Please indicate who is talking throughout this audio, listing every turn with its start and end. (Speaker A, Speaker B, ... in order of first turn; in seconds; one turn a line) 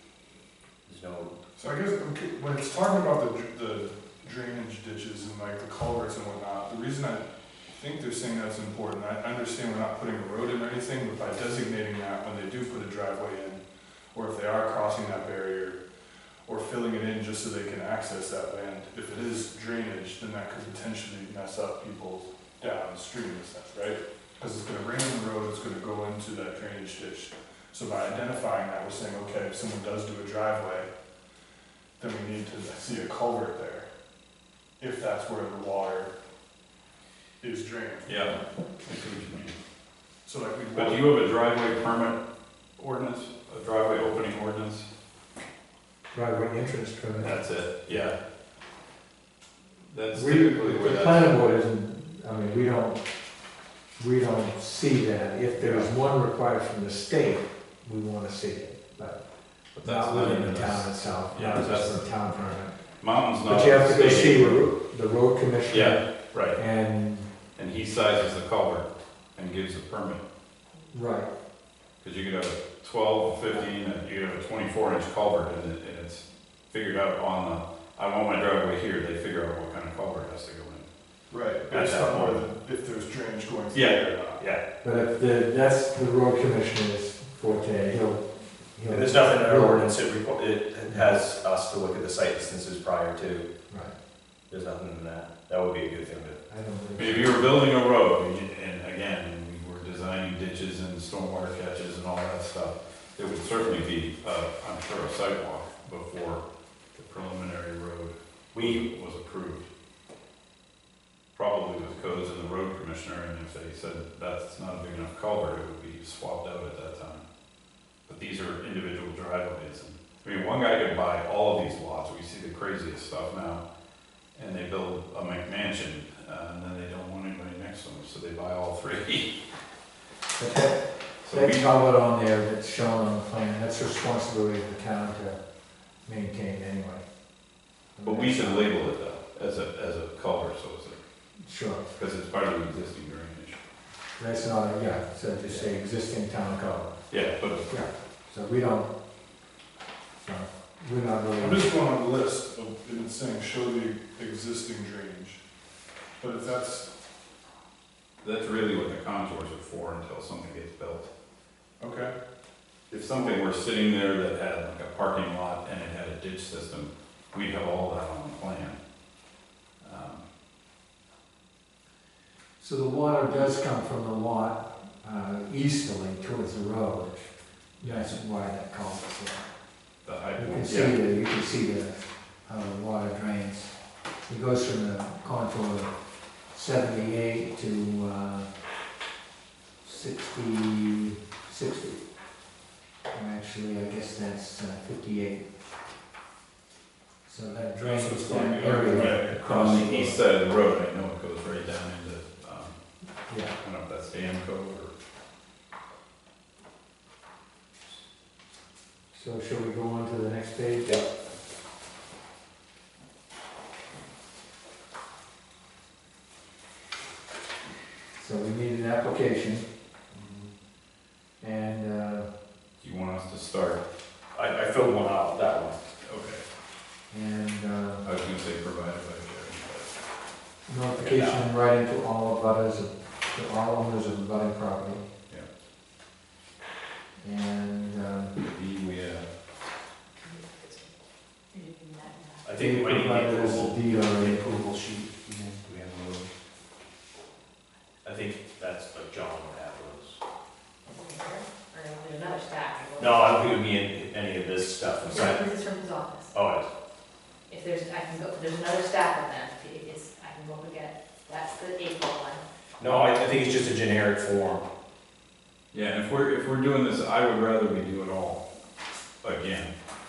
Speaker A: 0.9-1.4
Speaker B: 1.6-15.8
Speaker B: 16.5-30.9
Speaker B: 32.0-33.9
Speaker B: 34.8-36.1
Speaker B: 37.4-38.2
Speaker C: 38.1-39.6
Speaker B: 40.3-41.1
Speaker C: 40.8-42.2
Speaker C: 42.8-44.9
Speaker D: 46.1-47.3
Speaker C: 47.2-48.2
Speaker C: 49.9-51.4
Speaker D: 50.1-53.0
Speaker D: 54.0-59.2
Speaker C: 55.5-55.9
Speaker C: 59.7-62.1
Speaker D: 59.8-62.8
Speaker C: 63.0-64.7
Speaker D: 63.4-67.3
Speaker C: 65.7-66.6
Speaker C: 67.6-70.2
Speaker D: 70.9-71.3
Speaker C: 72.0-80.9
Speaker B: 81.3-84.4
Speaker C: 81.7-82.4
Speaker C: 83.7-84.0
Speaker D: 84.8-89.9
Speaker A: 88.9-93.5
Speaker A: 94.5-96.4
Speaker D: 96.5-97.4
Speaker C: 97.0-106.4
Speaker C: 107.0-109.7
Speaker A: 108.5-108.8
Speaker C: 111.3-117.2
Speaker C: 118.1-123.6
Speaker C: 124.3-129.4
Speaker D: 130.4-135.4
Speaker C: 131.2-131.7
Speaker D: 136.1-137.0
Speaker D: 138.0-138.7
Speaker C: 138.0-141.0
Speaker D: 141.4-141.9
Speaker C: 141.9-143.6
Speaker D: 144.2-147.0
Speaker C: 147.1-147.8
Speaker D: 147.7-148.9
Speaker D: 150.2-151.8
Speaker B: 151.4-155.4
Speaker B: 156.2-156.9
Speaker C: 158.2-161.1
Speaker B: 161.8-162.1
Speaker C: 162.9-168.8
Speaker C: 169.8-170.2
Speaker D: 172.6-179.5
Speaker C: 177.8-178.1
Speaker C: 180.0-181.0
Speaker D: 180.4-183.8
Speaker D: 184.3-185.9
Speaker D: 186.5-188.5
Speaker D: 189.8-192.0
Speaker D: 193.1-195.5
Speaker D: 197.2-200.2
Speaker B: 197.8-199.6
Speaker C: 199.3-202.8
Speaker D: 203.3-203.6
Speaker C: 203.6-204.9
Speaker D: 209.1-211.0
Speaker D: 218.2-219.7
Speaker A: 220.1-220.5
Speaker D: 221.4-222.3
Speaker C: 222.8-223.8
Speaker A: 224.3-225.8
Speaker C: 226.0-226.4
Speaker D: 227.1-228.1
Speaker C: 228.0-229.9
Speaker D: 230.7-235.0
Speaker A: 230.9-231.5
Speaker D: 237.2-238.4
Speaker C: 238.5-239.3
Speaker E: 241.5-242.4
Speaker A: 242.4-246.3
Speaker D: 242.6-244.5
Speaker A: 248.0-250.2
Speaker E: 250.9-253.5
Speaker A: 253.0-255.5
Speaker E: 255.1-256.3
Speaker A: 256.3-256.7
Speaker E: 257.5-262.4
Speaker A: 262.8-264.7
Speaker C: 265.7-268.4
Speaker C: 269.2-269.7